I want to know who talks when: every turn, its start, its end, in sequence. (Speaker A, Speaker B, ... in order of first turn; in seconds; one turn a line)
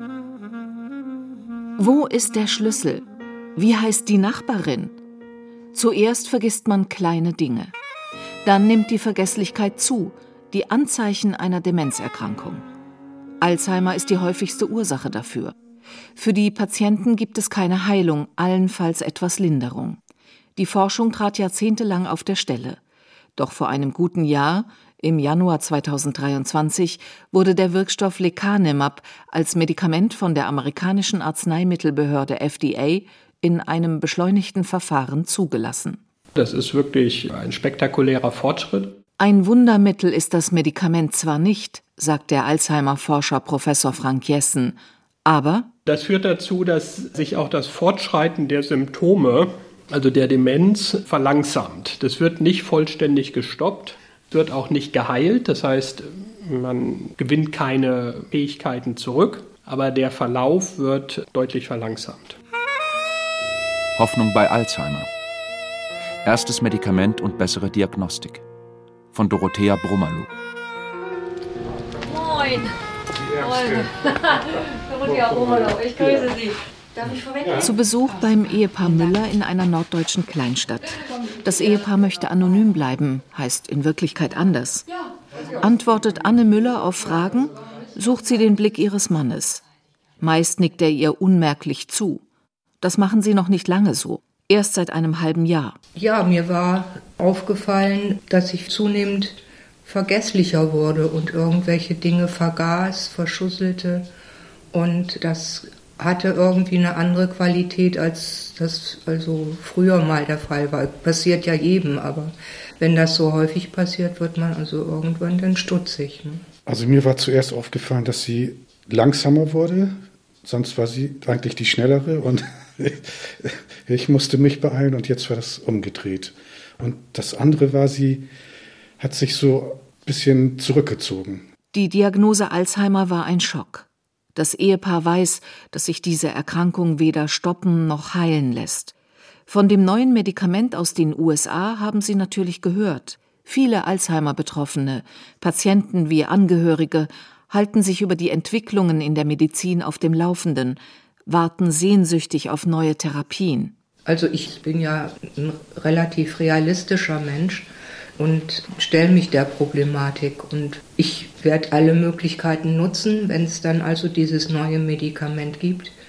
Speaker A: 1.8-3.0
Speaker A: 3.5-4.9
Speaker A: 5.7-7.7
Speaker A: 8.4-12.6
Speaker A: 13.4-15.5
Speaker A: 16.1-20.0
Speaker A: 20.6-22.8
Speaker A: 23.4-36.0
Speaker B: 36.4-39.0
Speaker A: 39.2-45.7
Speaker B: 45.9-62.4
Speaker C: 64.0-65.1
Speaker C: 66.2-68.4
Speaker C: 69.1-70.3
Speaker D: 73.4-73.8
Speaker D: 75.0-76.4
Speaker D: 77.0-77.5
Speaker A: 77.6-84.8
Speaker A: 85.5-89.6
Speaker A: 90.2-92.2
Speaker A: 92.8-95.8
Speaker E: 96.0-104.1
Speaker E: 104.7-116.4
Speaker F: 116.7-128.3
Speaker F: 129.0-131.4
Speaker A: 131.7-138.9
Speaker A: 139.5-153.7
Speaker E: 154.1-165.9